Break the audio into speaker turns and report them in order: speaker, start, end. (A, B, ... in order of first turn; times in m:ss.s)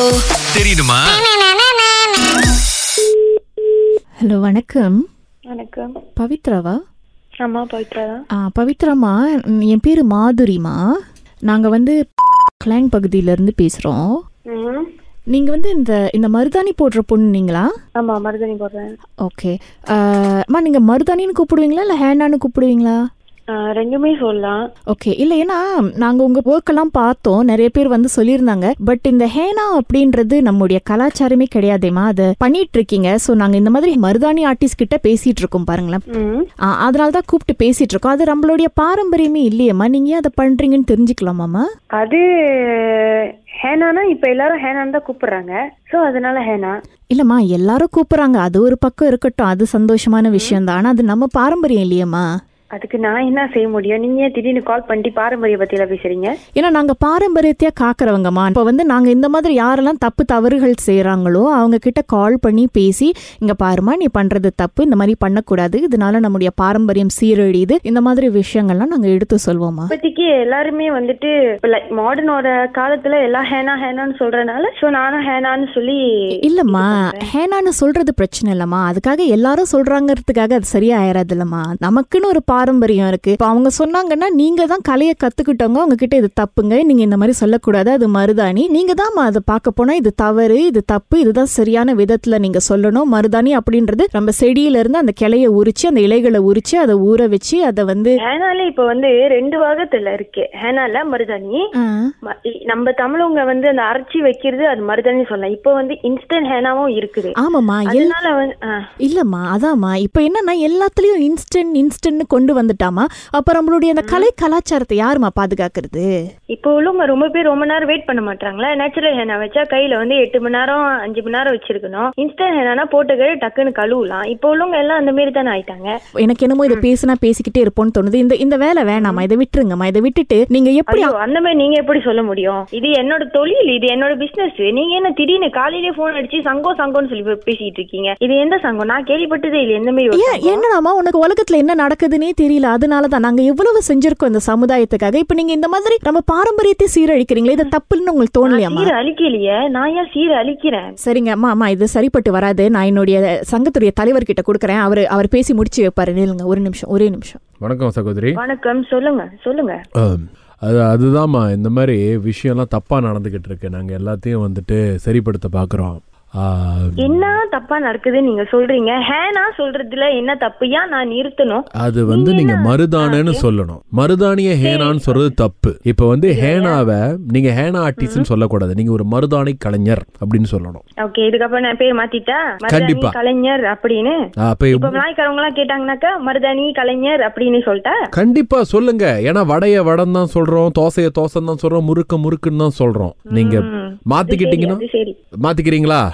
0:00.5-0:01.2 A
0:04.2-0:05.0 B
0:05.5-0:05.9 C
0:06.2-0:06.8 B
0:07.4-0:08.2 C
0:08.4-0:09.2 B
0:09.7-0:10.8 B
0:11.5-0:12.0 B
0:12.6-0:14.1 B
0:14.5-0:14.9 C
0:15.3-0:17.7 B
0:18.0-0:18.9 C
0:19.2-0:23.0 B
0:23.5-0:24.6 C
0:24.9-0:36.0 B
0:36.1-0:36.5 C
0:36.7-0:41.6 B
0:42.0-0:42.2 C
0:42.8-0:43.0 C
0:43.6-0:46.7 C
0:47.1-0:52.2 B
0:50.3-0:50.6 C
0:52.8-0:56.3 C
0:56.6-1:09.9 B
1:09.9-1:16.0 C
1:16.5-1:38.2 B
1:16.7-1:17.3 C
1:38.2-1:41.6 C
1:42.3-1:47.4 C
1:47.4-1:48.2 B
1:47.9-1:48.8 C
1:49.0-1:56.1 B
1:54.0-1:54.3 C
1:56.5-2:05.9 C
2:06.2-2:11.1 B
2:09.0-2:09.3 C
2:10.9-2:20.6 C
2:20.1-2:28.9 B
2:28.4-2:30.9 C
2:31.0-2:37.4 B
2:37.6-2:38.4 A
2:38.4-2:39.8 C
2:40.0-2:47.3 A
2:47.0-2:53.4 C
2:51.8-3:00.8 A
2:54.6-2:55.3 C
2:56.3-2:56.8 C
2:58.0-2:58.3 C
3:01.0-3:04.2 C
3:02.7-3:03.2 A
3:04.4-3:05.0 A
3:04.7-3:08.0 C
3:08.2-3:14.8 A
3:13.3-3:15.2 C
3:15.4-3:16.0 A